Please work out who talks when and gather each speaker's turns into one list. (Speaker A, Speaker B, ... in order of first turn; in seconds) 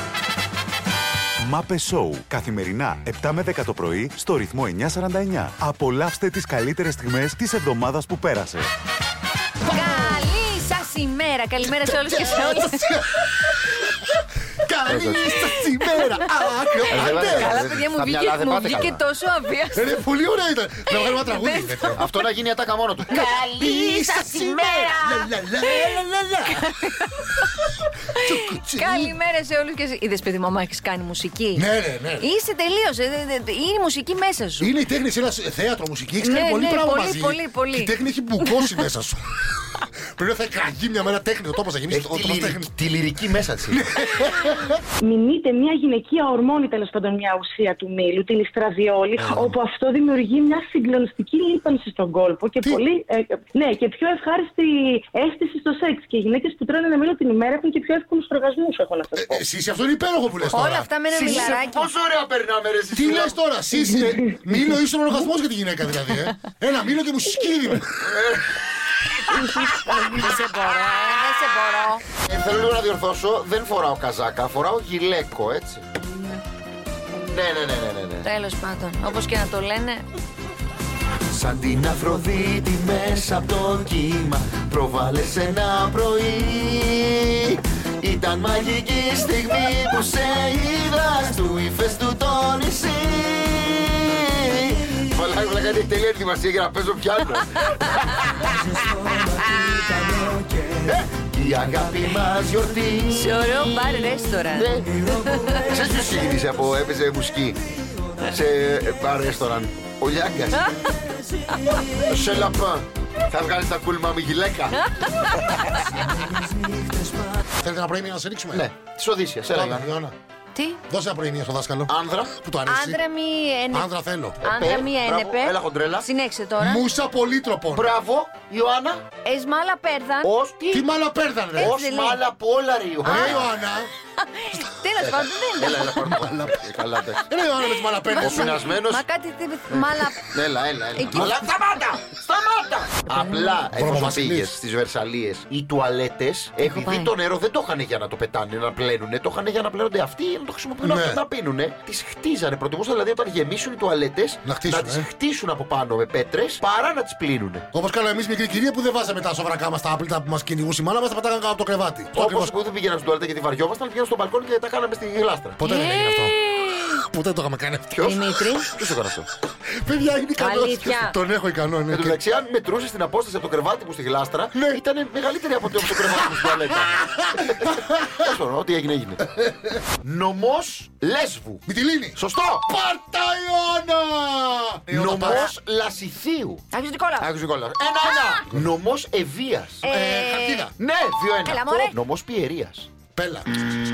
Speaker A: 1.4-8.7
Speaker B: 9.7-10.2, 11.6-13.2, 14.6-17.6, 19.8-22.0, 23.1-26.7, 28.2-29.1, 31.5-32.3, 34.6-39.2, 40.2-42.8, 43.7-44.7, 49.2-49.5, 59.1-61.3, 62.9-68.0, 117.6-118.7, 119.5-120.2, 120.9-123.0, 123.7-124.4, 126.6-127.9, 130.7-131.9, 133.1-133.9, 136.0-136.6, 137.2-138.6, 143.7-144.5, 150.8-151.2, 154.4-155.1, 157.7-162.5, 165.6-166.3, 166.9-168.2, 169.8-172.2, 174.5-174.8, 175.7-178.2, 179.3-179.8, 181.7-185.5, 189.8-190.7, 193.2-193.6
Speaker C: 9.7-13.0, 15.4-16.2, 16.9-20.0, 20.9-22.2, 23.1-27.5, 28.2-31.6, 32.2-34.7, 36.2-38.8, 60.5-61.9, 69.9-72.0, 78.2-80.1, 103.1-105.8, 115.0-115.8, 120.5-120.8, 122.7-123.9, 124.4-126.8, 129.2-130.3, 131.6-132.2, 133.0-133.4, 134.2-135.9, 137.7-140.3, 141.0-141.4, 143.1-143.6, 146.6-147.1, 165.7-167.0, 168.0-168.7, 170.4-171.2, 185.3-185.5, 186.7-187.3, 188.0-188.4, 189.8-190.7, 191.4-191.9
Speaker D: 14.9-15.4, 16.9-19.0, 22.0-24.9, 41.9-43.8, 61.1-63.4, 68.0-70.3, 72.2-75.8, 77.1-78.3, 81.3-104.9, 105.6-107.6, 108.2-110.8, 112.0-114.8, 118.5-119.9, 121.9-122.3, 124.4-126.1, 127.7-129.0, 130.2-130.9, 131.6-133.5, 135.0-137.2, 138.2-139.0, 139.7-157.7, 162.1-165.6, 167.9-169.3, 171.9-179.3, 180.0-182.7, 184.9-186.6, 187.2-189.9, 190.8-192.9
Speaker E: 45.0-59.4